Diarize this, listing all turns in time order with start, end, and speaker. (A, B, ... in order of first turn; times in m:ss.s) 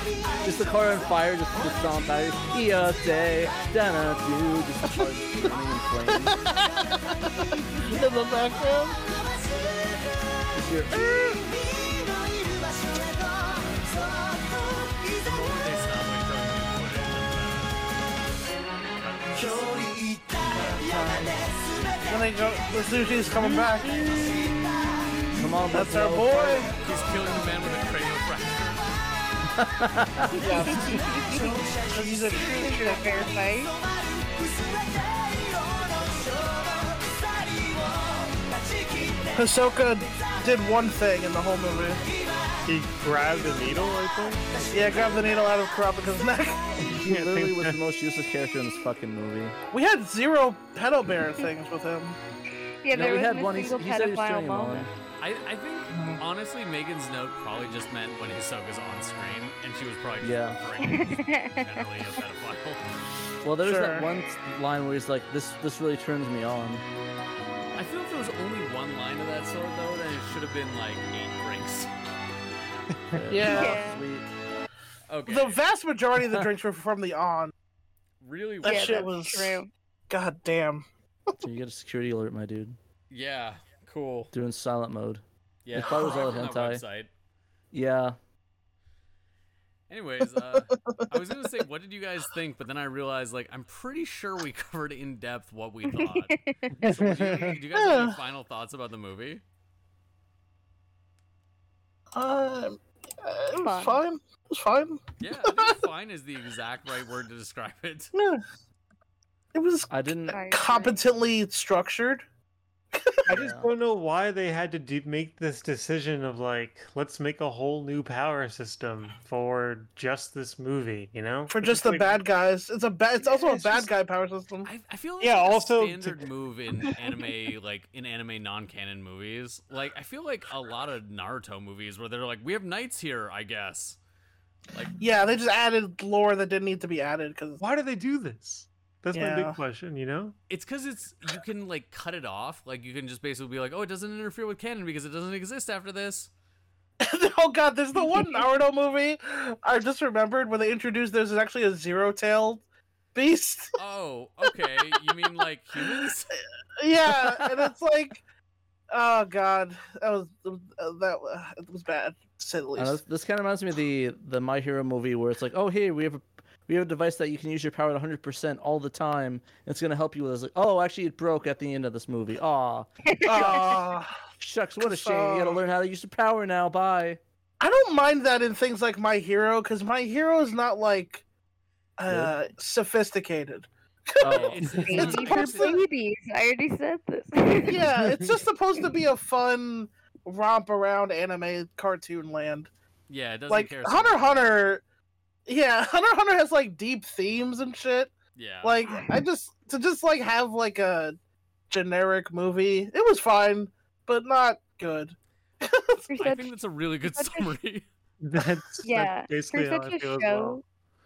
0:00.4-0:06.4 A
0:06.1-0:09.0 B
0:10.5-0:11.1 A
0:10.9-0:11.4 B
0:15.2-0:17.8 C
0:19.0-0:20.0 C
0:20.4-0:21.2 A
0:21.7-0:22.3 C
0:22.1-0:24.0 B
0:25.3-0:26.7 A
0:25.7-0:26.7 B
0:26.8-0:28.9 C
0:29.5-0:30.4 A
0:30.3-0:31.0 B
0:30.5-0:31.6 D
0:31.9-0:33.0 B
0:32.4-0:33.7 D
0:39.3-0:42.0 B
0:42.6-0:44.7 E
0:44.7-0:46.6 B
0:46.8-0:49.6 A
0:47.0-0:47.8 E
0:49.7-0:52.2 B
0:52.8-0:54.9 D
0:52.9-0:54.9 A
0:55.2-1:02.8 C
0:55.9-0:56.2 B
1:00.2-1:00.6 A
1:00.8-1:01.8 D
1:03.4-1:06.8 A
1:03.6-1:04.1 B
1:07.8-1:11.9 C
1:13.1-1:14.2 A
1:13.3-1:13.8 B
1:13.5-1:14.0 D
1:15.1-1:15.6 C
1:15.2-1:17.5 B
1:16.2-1:16.5 A
1:18.2-1:19.1 C
1:18.6-1:19.7 D
1:18.6-1:20.8 B
1:21.4-1:22.8 A
1:23.1-1:24.3 C
1:24.3-1:26.8 A
1:25.6-1:27.1 C
1:25.9-1:26.4 B
1:27.7-1:28.2 A
1:29.9-1:39.4 C
1:36.0-1:37.2 D
1:36.8-1:37.5 E
1:37.1-1:38.2 B
1:42.1-1:45.0 B
1:43.6-1:44.0 D
1:45.2-1:48.1 C
1:48.1-1:48.4 B
1:49.5-1:52.2 B
1:49.9-1:50.4 A
1:50.3-1:51.0 D
1:52.9-1:53.2 B
1:53.3-1:53.7 A
1:53.3-2:02.2 E
2:01.5-2:04.7 B
2:03.4-2:03.8 E
2:04.6-2:14.0 C
2:05.2-2:06.2 E
2:15.0-2:17.6 B
2:17.6-2:20.3 E
2:19.1-2:19.6 B
2:20.5-2:26.3 C
2:27.0-2:32.6 B
2:28.0-2:28.4 D
2:33.1-2:33.7 B
2:33.8-2:36.3 C
2:36.8-2:38.2 B
2:37.1-2:37.6 A
2:38.9-2:43.0 B
2:42.8-2:53.6 A
2:53.1-2:53.8 D
2:53.2-2:54.1 B
2:54.4-2:57.2 A
2:54.8-2:55.6 B
2:57.6-3:01.2 B
3:02.0-3:05.8 B
3:02.1-3:02.3 A
3:04.2-3:04.8 A
3:04.3-3:05.8 C
3:04.8-3:07.9 D
3:07.6-3:12.7 B
3:13.1-3:14.5 C
3:13.5-3:14.8 B
3:15.5-3:21.2 B
3:18.3-3:18.8 C
3:21.7-3:26.0 B
3:26.1-3:27.5 D
3:26.2-3:27.8 C
3:28.2-3:30.6 E
3:28.8-3:30.6 D